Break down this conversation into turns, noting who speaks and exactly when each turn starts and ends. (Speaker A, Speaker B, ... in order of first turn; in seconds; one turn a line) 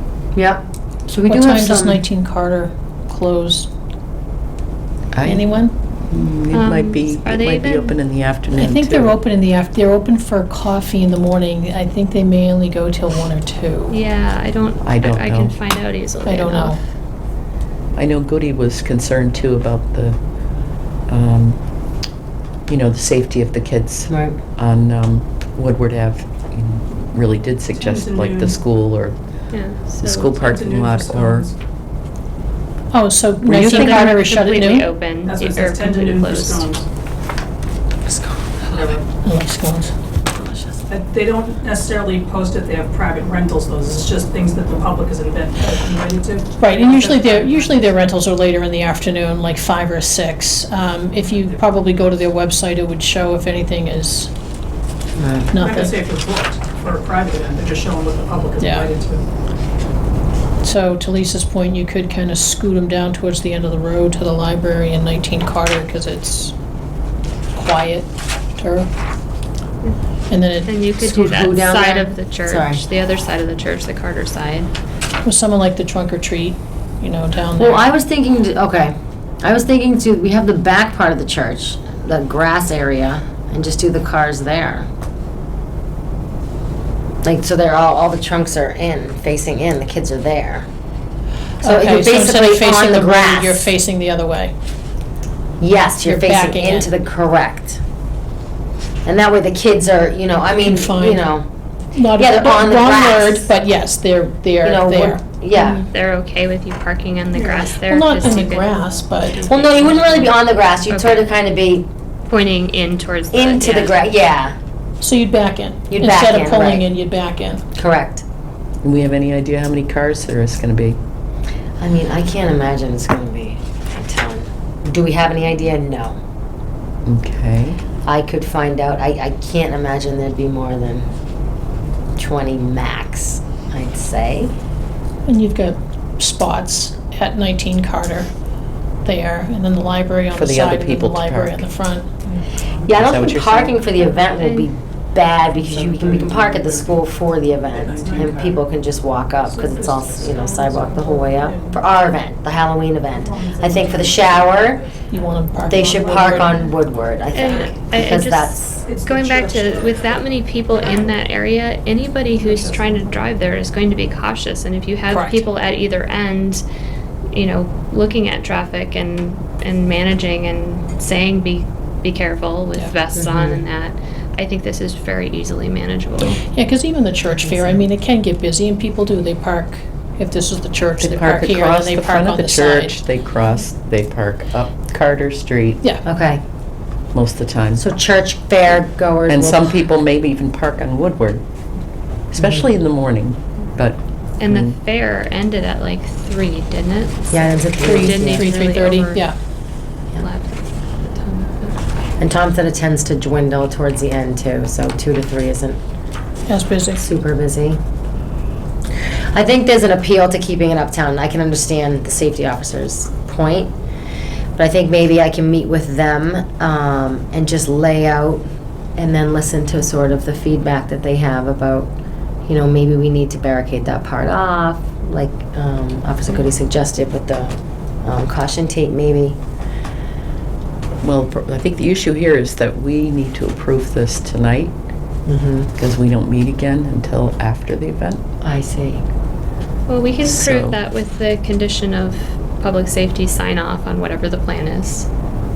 Speaker A: 0.3-2.0
Speaker B: 1.3-3.7
Speaker C: 5.1-9.2
Speaker B: 5.2-5.7
Speaker D: 6.5-7.9
Speaker B: 8.5-14.0
Speaker D: 13.9-16.8
Speaker C: 14.8-15.5
Speaker B: 16.2-16.8
Speaker C: 17.9-20.2
Speaker C: 21.1-21.6
Speaker C: 22.7-29.2
Speaker A: 24.1-24.4
Speaker E: 27.8-28.6
Speaker D: 29.5-30.3
Speaker C: 30.0-31.5
Speaker E: 30.4-31.5
Speaker B: 32.9-34.9
Speaker C: 33.5-33.8
Speaker D: 33.6-36.7
Speaker E: 35.2-36.9
Speaker E: 38.7-39.1
Speaker B: 39.1-39.9
Speaker E: 40.9-47.9
Speaker B: 46.5-54.3
Speaker A: 55.1-55.5
Speaker B: 55.5-56.0
Speaker E: 55.6-59.2
Speaker B: 58.6-58.9
Speaker B: 60.6-66.5
Speaker B: 67.5-68.9
Speaker B: 70.3-70.8
Speaker D: 70.6-74.7
Speaker A: 71.0-72.8
Speaker B: 75.2-77.9
Speaker A: 77.5-84.9
Speaker A: 87.2-90.7
Speaker A: 91.6-93.6
Speaker B: 91.6-94.5
Speaker A: 95.6-97.8
Speaker B: 96.0-96.9
Speaker A: 99.0-101.5
Speaker B: 100.6-101.3
Speaker B: 101.9-105.8
Speaker A: 102.1-103.5
Speaker A: 104.6-105.8
Speaker D: 105.8-111.3
Speaker E: 107.3-107.6
Speaker B: 107.8-110.0
Speaker A: 109.5-111.9
Speaker D: 112.3-114.0
Speaker A: 113.3-114.5
Speaker B: 115.0-117.6
Speaker A: 115.9-116.9
Speaker A: 117.8-118.2
Speaker C: 118.8-121.0
Speaker A: 121.8-126.2
Speaker C: 127.0-127.8
Speaker A: 128.0-131.1
Speaker A: 132.2-134.5
Speaker B: 135.2-138.3
Speaker B: 139.0-142.2
Speaker C: 140.3-141.7
Speaker E: 142.2-142.9
Speaker A: 142.8-154.8
Speaker C: 142.9-143.8
Speaker D: 144.4-144.7
Speaker E: 146.1-146.8
Speaker E: 147.8-148.6
Speaker E: 149.4-151.8
Speaker E: 153.2-155.0
Speaker B: 155.0-156.6
Speaker A: 155.7-158.6
Speaker E: 155.9-156.7
Speaker D: 157.3-166.6
Speaker E: 158.8-160.2
Speaker E: 160.8-161.1
Speaker E: 162.4-163.1
Speaker B: 165.1-165.5
Speaker D: 167.3-176.4
Speaker A: 173.2-173.6
Speaker B: 176.4-183.0
Speaker A: 177.3-177.8
Speaker C: 181.0-185.8
Speaker A: 186.0-186.4
Speaker C: 187.1-187.8
Speaker A: 187.8-189.7
Speaker C: 189.3-191.4
Speaker C: 192.3-194.7
Speaker A: 192.4-192.6
Speaker D: 194.4-199.3
Speaker A: 197.3-198.6
Speaker B: 197.8-199.4
Speaker D: 200.2-201.8
Speaker A: 202.2-205.8
Speaker B: 206.5-207.1
Speaker A: 207.0-207.8
Speaker A: 209.3-213.7
Speaker A: 214.6-218.4
Speaker A: 219.0-221.9
Speaker A: 222.4-229.4
Speaker C: 231.0-234.7
Speaker A: 235.3-235.7
Speaker C: 235.8-238.2
Speaker A: 238.4-239.1
Speaker D: 239.9-245.1
Speaker C: 240.2-240.8